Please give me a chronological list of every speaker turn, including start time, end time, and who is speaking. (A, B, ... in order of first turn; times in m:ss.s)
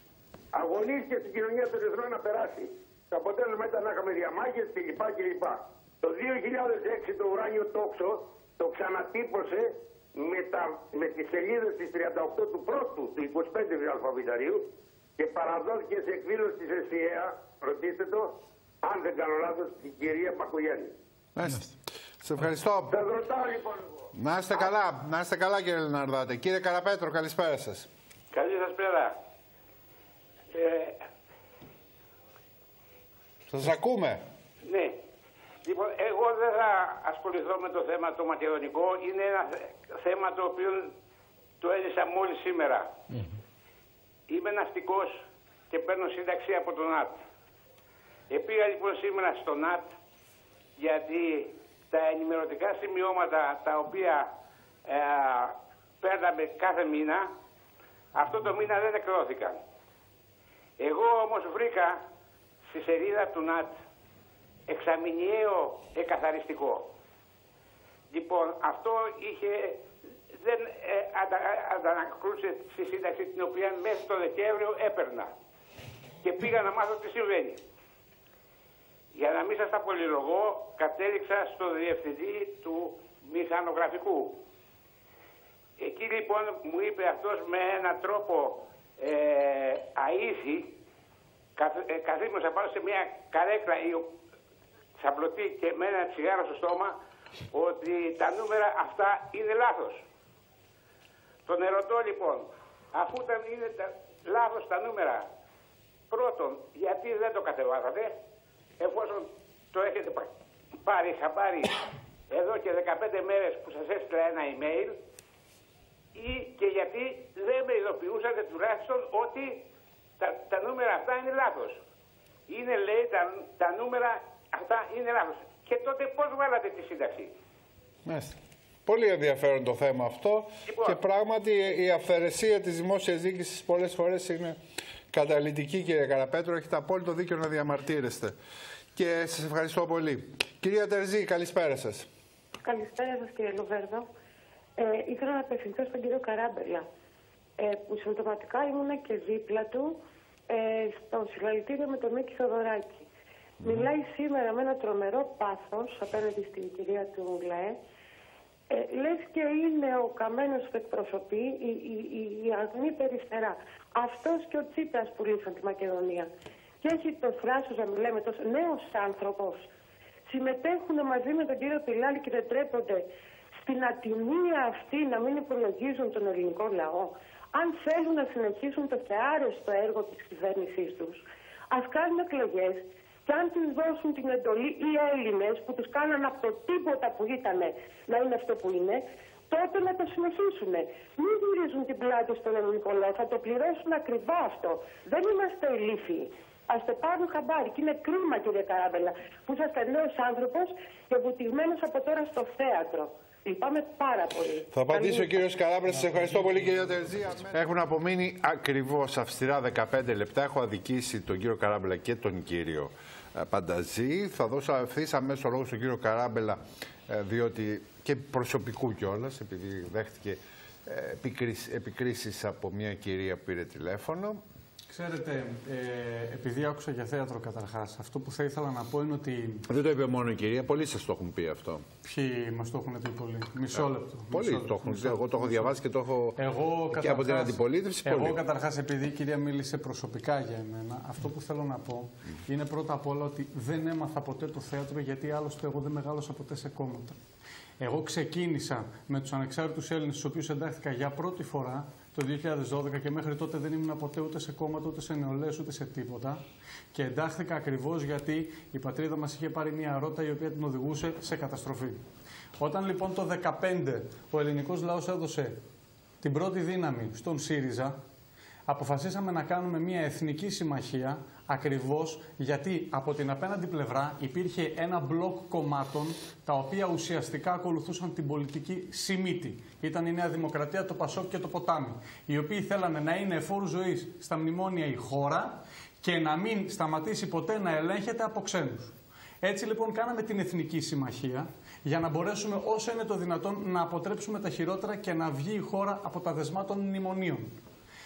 0:00.5-0:14.6 A
0:15.2-0:20.9 A
0:21.4-0:23.0 B
0:22.9-0:23.9 A
0:24.2-0:27.9 B
0:28.3-0:29.2 C
0:30.5-0:31.0 C
0:33.5-0:34.2 B
0:34.6-0:35.0 C
0:35.6-0:40.9 C
0:41.6-0:42.9 C
0:44.3-0:47.2 C
0:48.3-0:49.9 C
0:50.8-0:54.3 C
0:54.9-0:57.3 C
0:58.1-0:59.6 C
1:00.8-1:02.0 C
1:02.7-1:03.8 C
1:04.7-1:06.9 C
1:08.1-1:15.3 C
1:16.2-1:17.6 C
1:19.1-1:24.4 C
1:25.8-1:30.7 C
1:31.6-1:34.1 C
1:35.0-1:37.0 C
1:37.5-1:40.0 C
1:41.4-1:45.3 C
1:46.1-1:48.2 C
1:48.8-1:50.3 C
1:50.8-1:51.8 C
1:52.3-1:55.0 C
1:56.2-1:59.6 C
2:00.2-2:01.8 C
2:02.5-2:07.3 C
2:08.0-2:14.6 B
2:10.7-2:11.0 C
2:15.1-2:18.4 B
2:19.0-2:22.1 B
2:22.6-2:24.1 D
2:24.8-2:26.9 D
2:27.6-2:30.0 D
2:30.5-2:33.1 D
2:33.6-2:37.8 D
2:38.7-2:46.3 D
2:46.8-2:49.7 D
2:50.3-2:53.1 D
2:53.6-3:25.4 D
3:24.7-3:44.4 B
3:44.9-3:49.6 E
3:49.7-3:51.8 B
3:52.0-3:55.7 E
3:54.3-3:56.4 B
3:56.4-4:07.2 E
3:56.9-3:58.4 B
4:07.8-4:16.4 E
4:16.9-4:22.0 E
4:22.6-4:25.6 E
4:26.2-4:28.0 E
4:28.7-4:57.5 E